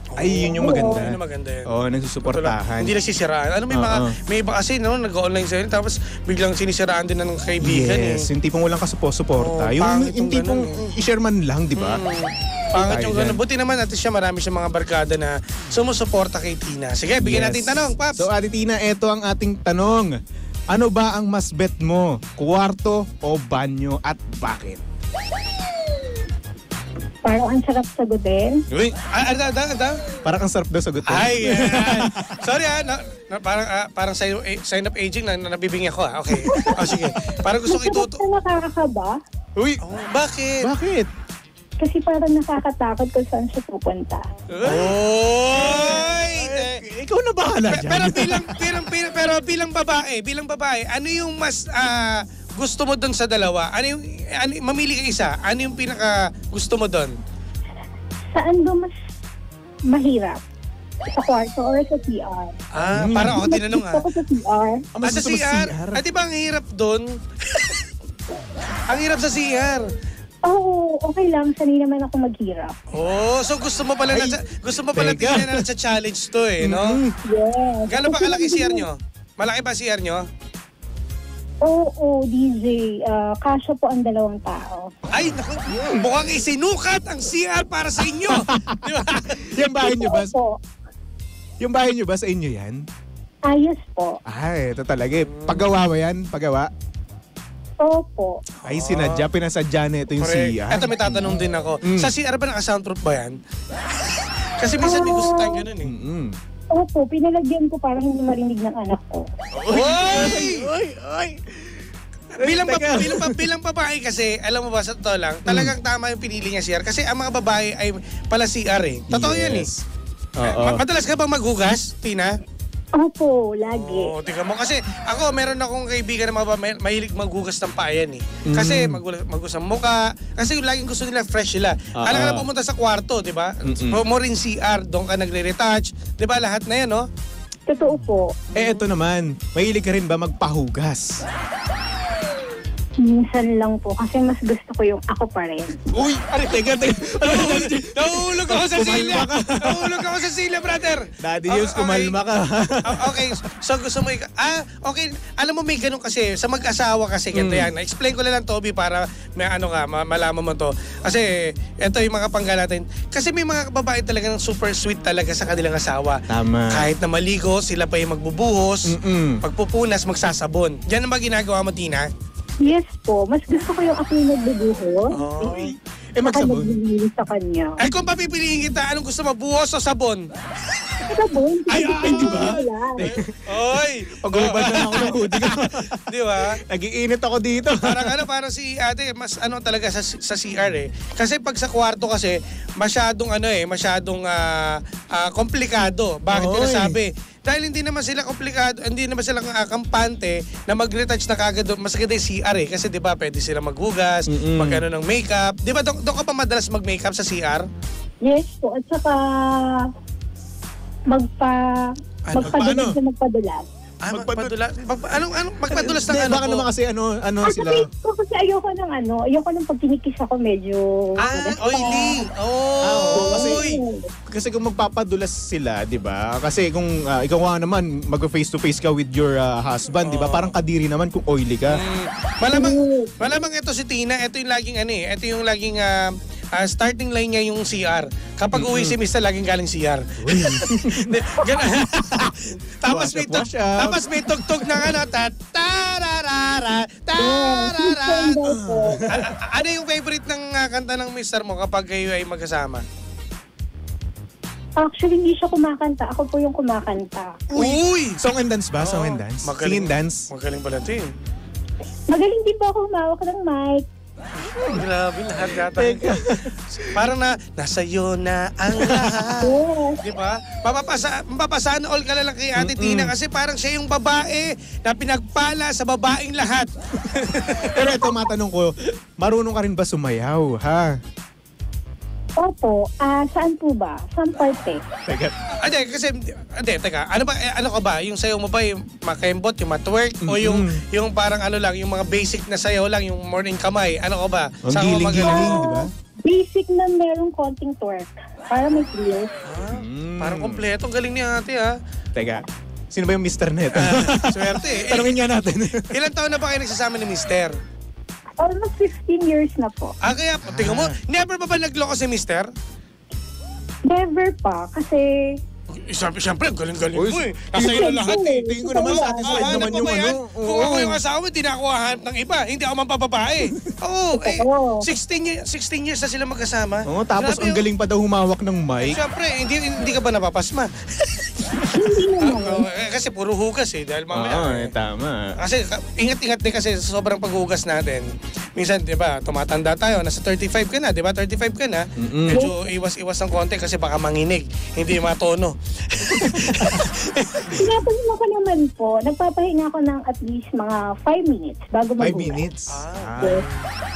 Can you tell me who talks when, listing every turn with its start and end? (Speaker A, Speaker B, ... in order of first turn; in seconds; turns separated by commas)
Speaker A: 0.1-1.7, Speaker B: 0.2-2.9, Speaker C: 0.4-1.1, Speaker A: 2.2-8.2, Speaker B: 3.7-4.1, Speaker B: 7.6-12.0, Speaker A: 9.4-10.9, Speaker A: 11.8-18.3, Speaker B: 12.8-13.4, Speaker B: 17.2-20.1, Speaker B: 20.7-24.8, Speaker C: 27.2-28.6, Speaker A: 29.1-30.0, Speaker B: 30.2-32.2, Speaker A: 31.1-38.2, Speaker B: 36.4-37.0, Speaker C: 36.4-36.9, Speaker C: 37.7-39.2, Speaker B: 39.6-39.8, Speaker A: 39.9-40.7, Speaker B: 40.6-41.1, Speaker C: 41.8-44.2, Speaker B: 44.5-45.0, Speaker A: 44.6-46.8, Speaker B: 45.5-48.6, Speaker A: 47.7-57.1, Speaker C: 58.3-58.9, Speaker C: 59.9-60.4, Speaker C: 61.1-64.8, Speaker A: 62.8-64.0, Speaker B: 62.9-63.5, Speaker B: 64.9-66.0, Speaker A: 65.0-67.9, Speaker A: 68.9-69.8, Speaker C: 70.4-72.8, Speaker A: 72.9-77.0, Speaker B: 74.1-74.3, Speaker B: 74.9-75.6, Speaker B: 76.6-77.1, Speaker C: 77.2-78.9, Speaker A: 77.9-80.2, Speaker C: 81.6-84.9, Speaker A: 85.1-89.5, Speaker B: 88.3-88.8, Speaker B: 89.4-90.3, Speaker C: 89.8-90.6, Speaker B: 91.6-92.8, Speaker C: 93.5-94.2, Speaker B: 94.2-96.7, Speaker A: 95.3-95.7, Speaker C: 97.8-98.4, Speaker A: 98.6-99.3, Speaker B: 98.6-102.1, Speaker A: 100.2-103.4, Speaker A: 103.9-105.9, Speaker C: 104.8-105.6, Speaker B: 105.8-106.4, Speaker C: 106.7-109.2, Speaker B: 109.5-111.8, Speaker A: 109.7-110.7, Speaker B: 112.4-113.5, Speaker A: 112.4-119.7, Speaker B: 115.5-115.7, Speaker B: 119.1-119.8, Speaker B: 120.4-120.8, Speaker A: 120.4-122.3, Speaker C: 123.0-124.2, Speaker A: 123.7-137.1, Speaker B: 128.5-129.0, Speaker B: 132.0-132.4, Speaker B: 133.6-134.0, Speaker C: 137.7-138.3, Speaker A: 138.5-138.9, Speaker B: 138.5-141.2, Speaker C: 143.1-145.8, Speaker B: 145.9-150.2, Speaker A: 147.2-152.2, Speaker B: 151.2-153.2, Speaker A: 152.9-172.1, Speaker B: 157.3-157.7, Speaker B: 166.3-166.9, Speaker B: 168.9-169.4, Speaker C: 172.6-175.1, Speaker A: 175.1-175.7, Speaker B: 175.4-176.8, Speaker C: 176.2-177.8, Speaker A: 177.8-180.3, Speaker C: 181.0-183.0, Speaker B: 181.7-183.5, Speaker A: 181.8-186.6, Speaker B: 184.2-188.1, Speaker A: 187.8-207.6, Speaker B: 196.3-197.0, Speaker B: 204.3-204.8, Speaker C: 208.2-209.9, Speaker C: 211.1-213.7, Speaker A: 212.3-212.8, Speaker B: 212.4-213.0, Speaker A: 214.0-216.7, Speaker B: 214.1-214.5, Speaker B: 215.7-217.9, Speaker C: 217.4-222.2, Speaker A: 221.2-223.8, Speaker B: 222.8-223.6, Speaker C: 223.1-224.1, Speaker B: 224.3-231.8, Speaker A: 230.0-230.5, Speaker A: 231.7-248.4, Speaker C: 232.5-233.2, Speaker B: 238.5-239.0, Speaker B: 240.2-241.1, Speaker B: 242.8-244.9, Speaker C: 247.2-249.0, Speaker B: 248.4-249.3, Speaker A: 249.1-252.8, Speaker C: 254.8-257.4, Speaker A: 257.5-258.2, Speaker B: 257.5-260.2, Speaker A: 258.8-261.1, Speaker C: 262.1-263.9, Speaker A: 264.4-269.5, Speaker B: 265.7-267.0, Speaker B: 268.8-269.3, Speaker C: 269.4-270.0, Speaker A: 270.0-278.0, Speaker B: 272.6-273.1, Speaker B: 277.7-281.0, Speaker C: 282.4-284.8, Speaker B: 285.1-285.3, Speaker A: 285.6-295.6, Speaker B: 290.2-290.8, Speaker B: 294.6-295.9, Speaker C: 295.2-299.3, Speaker A: 299.5-301.7, Speaker B: 299.7-300.6, Speaker B: 302.1-305.9, Speaker A: 303.8-305.2, Speaker A: 305.9-307.6, Speaker C: 308.4-309.9, Speaker A: 310.0-312.5, Speaker B: 310.5-311.0, Speaker C: 313.9-315.4, Speaker A: 315.9-327.6, Speaker B: 316.9-321.0, Speaker C: 317.6-320.0, Speaker C: 324.2-324.8, Speaker B: 326.9-329.0, Speaker A: 328.8-331.6, Speaker C: 331.7-332.6, Speaker A: 332.2-334.7, Speaker B: 334.1-335.4, Speaker A: 335.4-347.6, Speaker B: 342.0-342.4, Speaker C: 347.5-352.4, Speaker B: 352.0-353.4, Speaker A: 352.7-353.7